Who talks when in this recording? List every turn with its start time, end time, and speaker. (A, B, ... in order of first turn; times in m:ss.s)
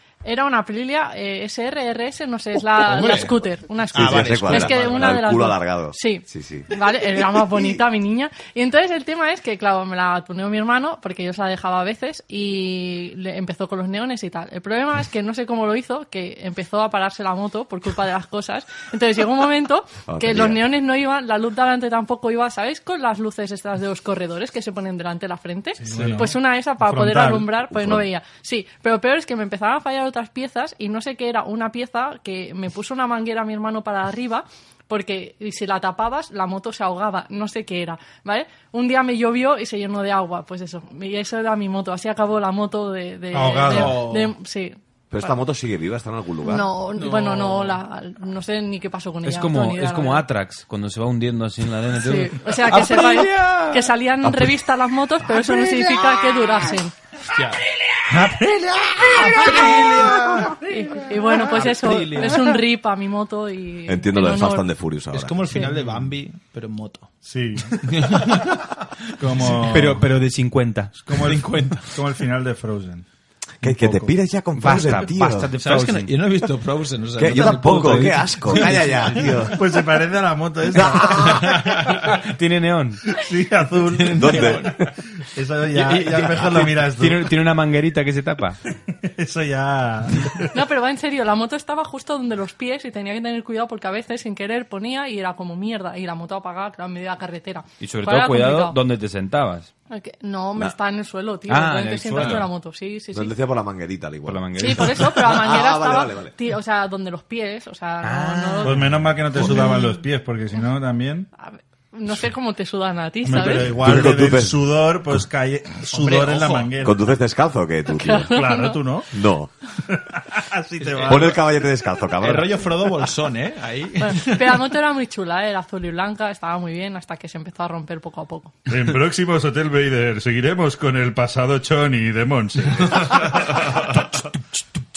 0:00.2-0:44.8 A
0:02.8-0:03.3 B
0:03.9-0:05.2 B
0:03.9-0:06.7 C
0:20.1-0:20.6 C
0:25.8-0:27.5 D
0:25.9-0:26.2 B
0:27.7-0:28.1 C
0:43.3-0:44.1 D
0:43.7-0:44.3 B
0:45.1-0:46.7 C
0:46.4-0:50.2 A
0:47.0-0:47.8 B
0:49.2-0:53.6 E
0:52.0-0:56.9 A
0:57.3-1:02.6 B
0:58.5-0:59.3 D
0:59.4-0:59.7 A
1:00.5-1:04.7 A
1:03.9-1:05.6 C
1:05.1-1:07.1 B
1:07.2-1:08.4 D
1:07.7-1:08.7 B
1:09.2-1:10.1 D
1:09.4-1:11.0 E
1:11.1-1:13.0 D
1:11.1-1:12.0 B
1:13.6-1:15.5 C
1:13.6-1:16.2 E
1:15.6-1:19.5 B
1:17.2-1:19.6 C
1:17.3-1:19.3 E
1:19.5-1:22.0 D
1:20.8-1:21.3 C
1:21.1-1:22.0 B
1:22.0-1:23.0 E
1:23.1-1:27.3 D
1:23.9-1:24.8 B
1:24.2-1:24.8 C
1:25.8-1:28.6 E
1:25.9-1:26.4 B
1:29.0-1:30.6 D
1:30.5-1:38.8 A
1:37.8-1:39.7 E
1:39.9-1:43.4 A
1:41.5-1:42.5 E
1:43.1-1:46.4 C
1:44.2-1:45.1 E
1:44.6-1:50.0 A
1:48.0-1:49.7 E
1:48.6-1:51.3 D
1:51.4-1:53.9 A
1:53.2-1:57.0 D
1:53.7-1:54.7 C
1:55.9-1:56.7 B
1:56.8-1:58.4 C
1:57.9-1:58.8 A
1:58.3-1:59.1 D
1:59.1-1:59.5 C
1:59.9-2:01.5 D
2:01.0-2:02.7 C
2:02.2-2:04.7 B
2:04.0-2:08.5 A
2:08.7-2:14.0 D